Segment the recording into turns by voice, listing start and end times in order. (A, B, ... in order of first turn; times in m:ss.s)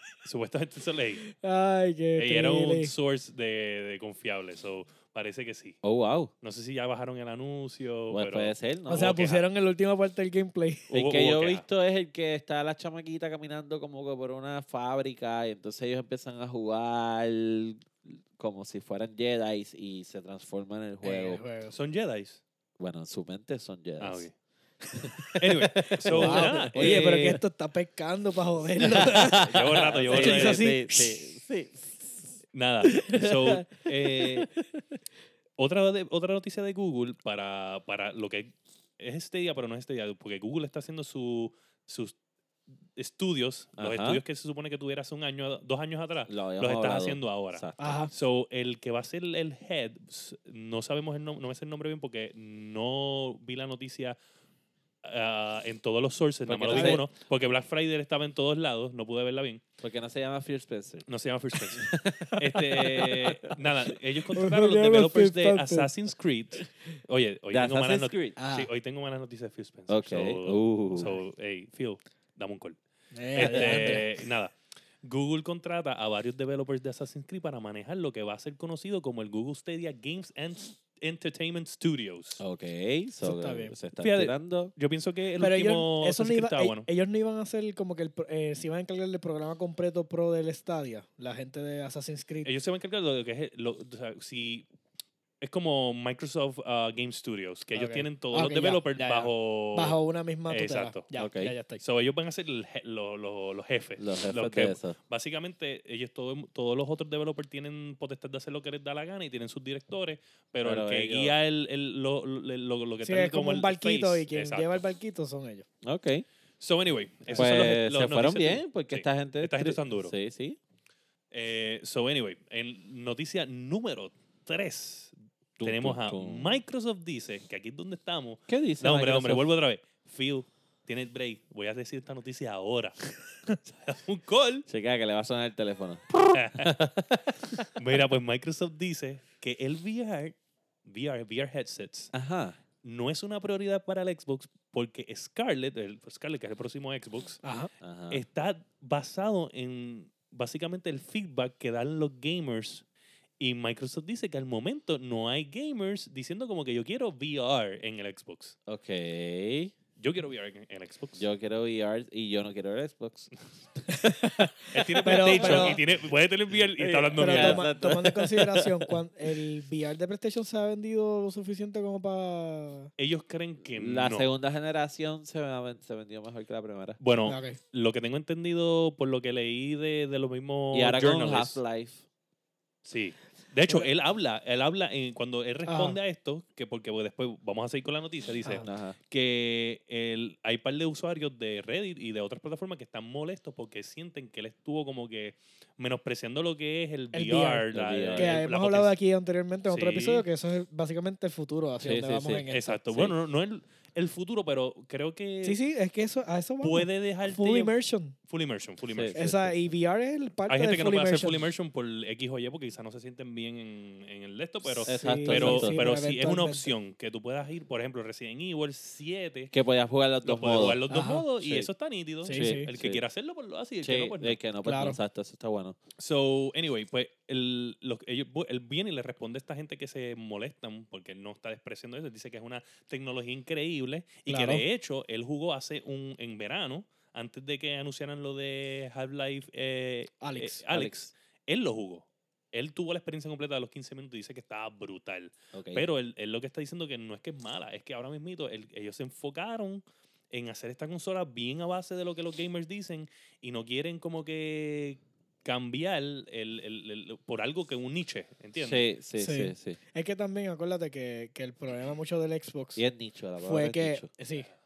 0:00.2-0:01.2 A
0:01.2-0:02.9 B
0:02.2-0:05.8 A
0:05.8-0:06.3 C
0:06.4-0:09.4 A
0:08.1-0:09.2 C
0:08.9-0:10.9 B
0:10.9-0:21.4 C
0:10.9-0:11.6 A
0:21.0-0:21.7 B
0:21.7-0:22.4 A
0:22.8-0:24.2 C
0:24.0-0:24.3 A
0:25.0-0:27.4 C
0:25.3-0:27.3 A
0:26.1-0:29.6 B
0:28.8-0:32.3 C
0:28.9-0:30.7 A
0:30.1-0:31.3 B
0:32.5-0:34.5 A
0:32.9-0:34.6 C
0:35.6-0:42.1 A
0:43.0-0:54.2 A
0:43.8-0:44.2 C
0:46.3-0:48.0 C
0:47.8-0:48.1 B
0:55.0-0:59.6 A
0:56.4-0:57.1 C
0:56.7-0:57.0 B
0:59.8-1:01.1 C
1:01.1-1:12.8 A
1:01.7-1:03.6 C
1:04.3-1:05.9 B
1:07.5-1:08.4 C
1:08.4-1:08.7 B
1:09.9-1:11.2 C
1:13.1-1:14.1 B
1:13.4-1:22.4 A
1:13.4-1:14.0 C
1:22.4-1:24.7 C
1:23.2-1:23.7 B
1:24.0-1:26.9 A
1:25.4-1:32.5 B
1:32.4-1:34.7 A
1:35.4-1:40.0 A
1:37.7-1:41.8 B
1:40.5-1:41.1 A
1:41.2-1:41.5 C
1:41.8-1:54.8 A
1:44.0-1:44.9 C
1:50.6-1:51.4 C
1:53.0-1:55.6 B
1:55.8-1:56.2 C
1:56.6-2:00.1 A
1:57.3-2:00.6 C
2:01.3-2:14.6 A
2:05.6-2:06.6 C
2:08.5-2:09.5 C
2:14.7-2:17.6 C
2:16.3-2:16.8 A
2:17.6-2:22.1 A
2:22.1-2:22.6 C
2:22.8-2:27.4 A
2:27.4-2:27.7 B
2:27.8-2:28.2 C
2:28.1-2:32.8 A
2:33.4-2:38.6 A
2:38.7-2:39.7 C
2:40.0-2:41.2 A
2:41.2-2:44.1 C
2:43.9-2:45.8 B
2:44.7-2:47.7 A
2:45.1-2:45.9 C
2:46.8-2:48.9 C
2:47.2-2:52.9 B
2:53.0-2:54.3 A
2:53.7-2:57.0 C
2:57.0-3:01.6 A
2:57.2-2:57.6 B
3:00.7-3:02.0 C
3:02.8-3:18.9 A
3:05.6-3:06.0 B
3:08.6-3:08.9 C
3:17.1-3:22.8 B
3:17.7-3:18.4 C
3:19.7-3:20.3 A
3:21.8-3:23.1 C
3:22.4-3:25.6 A
3:25.4-3:28.2 B
3:26.6-3:27.7 A
3:28.2-3:29.4 A
3:28.9-3:29.4 C
3:29.1-3:31.4 B
3:30.5-3:39.5 A
3:34.6-3:36.7 B
3:34.9-3:35.8 C
3:39.5-3:40.8 C
3:40.2-3:44.4 A
3:40.9-3:41.2 B
3:41.4-3:41.7 C
3:42.2-3:42.7 B
3:42.3-3:43.0 C
3:43.8-3:45.8 C
3:44.6-3:45.0 B
3:46.0-4:18.8 A
3:54.3-3:54.6 B
4:00.2-4:00.6 B
4:00.7-4:01.0 C
4:05.5-4:05.9 C
4:18.6-4:19.8 C
4:19.2-4:22.8 B
4:22.8-4:24.1 C
4:23.4-4:24.5 B